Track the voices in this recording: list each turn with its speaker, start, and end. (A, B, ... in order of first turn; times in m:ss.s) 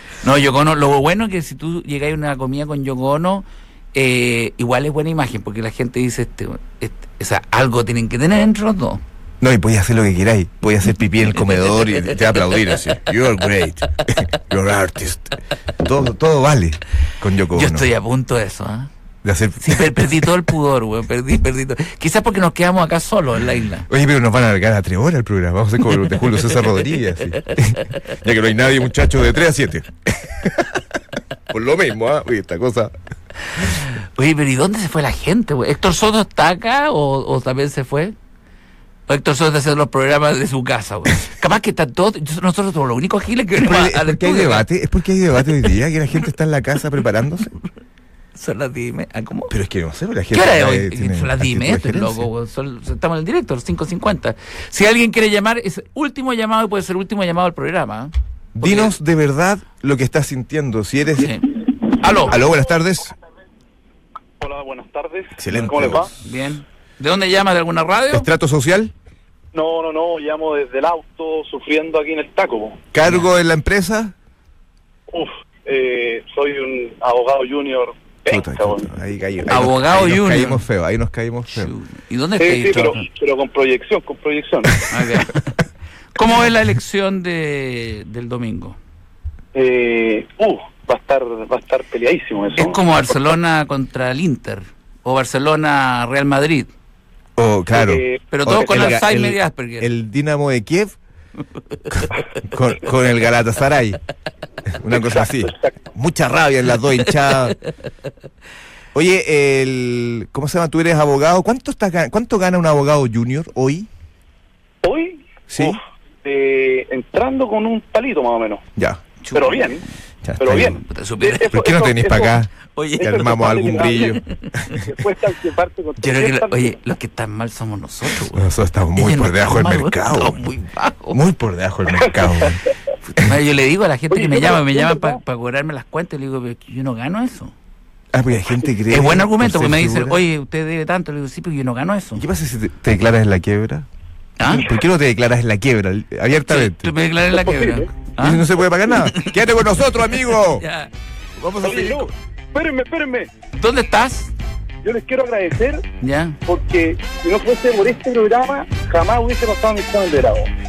0:00.2-0:09.0 A
0:09.4-0:17.9 B
0:17.5-0:18.9 A
0:19.2-0:20.2 B
0:19.6-0:23.9 A
0:23.9-0:30.8 B
0:27.4-0:27.8 A
0:31.5-0:32.9 B
0:33.6-0:38.1 A
0:39.1-0:44.6 A
0:43.6-0:47.5 B
0:48.3-0:49.5 A
0:49.5-0:52.3 B
0:50.3-0:58.9 A
0:58.5-1:01.4 B
1:01.2-1:02.4 A
1:02.0-1:03.1 B
1:04.4-1:06.1 C
1:05.4-1:06.1 B
1:06.1-1:08.3 A
1:08.1-1:08.9 B
1:09.5-1:12.8 C
1:12.9-1:14.1 B
1:15.1-1:18.9 C
1:18.3-1:21.7 B
1:19.5-1:20.6 A
1:21.5-1:23.1 A
1:22.4-1:24.9 C
1:24.9-1:25.5 A
1:26.1-1:28.8 A
1:29.5-1:32.8 C
1:32.6-1:36.7 A
1:37.4-1:41.0 B
1:37.7-1:38.2 C
1:38.3-1:39.9 A
1:41.9-1:44.0 B
1:44.6-1:47.6 B
1:45.2-1:45.6 C
1:48.9-1:53.9 B
1:54.8-1:58.6 C
1:55.5-1:55.8 B
1:58.8-1:59.0 B
1:59.2-1:59.8 A
1:59.3-1:59.8 C
2:00.2-2:00.8 B
2:00.4-2:02.4 C
2:00.8-2:01.6 A
2:01.4-2:04.9 B
2:02.7-2:04.6 A
2:03.0-2:04.1 C
2:04.7-2:06.8 C
2:06.0-2:11.2 A
2:08.2-2:10.4 B
2:11.1-2:12.6 B
2:12.0-2:12.7 C
2:13.1-2:17.5 A
2:14.1-2:15.2 C
2:18.1-2:20.2 B
2:18.9-2:22.2 A
2:22.1-2:23.9 B
2:24.4-2:24.7 A
2:24.4-2:26.9 B
2:26.4-2:29.4 A
2:27.3-2:27.9 C
2:28.2-2:30.6 B
2:30.0-2:30.9 A
2:31.4-2:32.1 B
2:31.6-2:33.3 C
2:33.5-2:34.3 A
2:34.8-2:35.8 C
2:36.0-2:36.4 A
2:36.4-2:40.5 C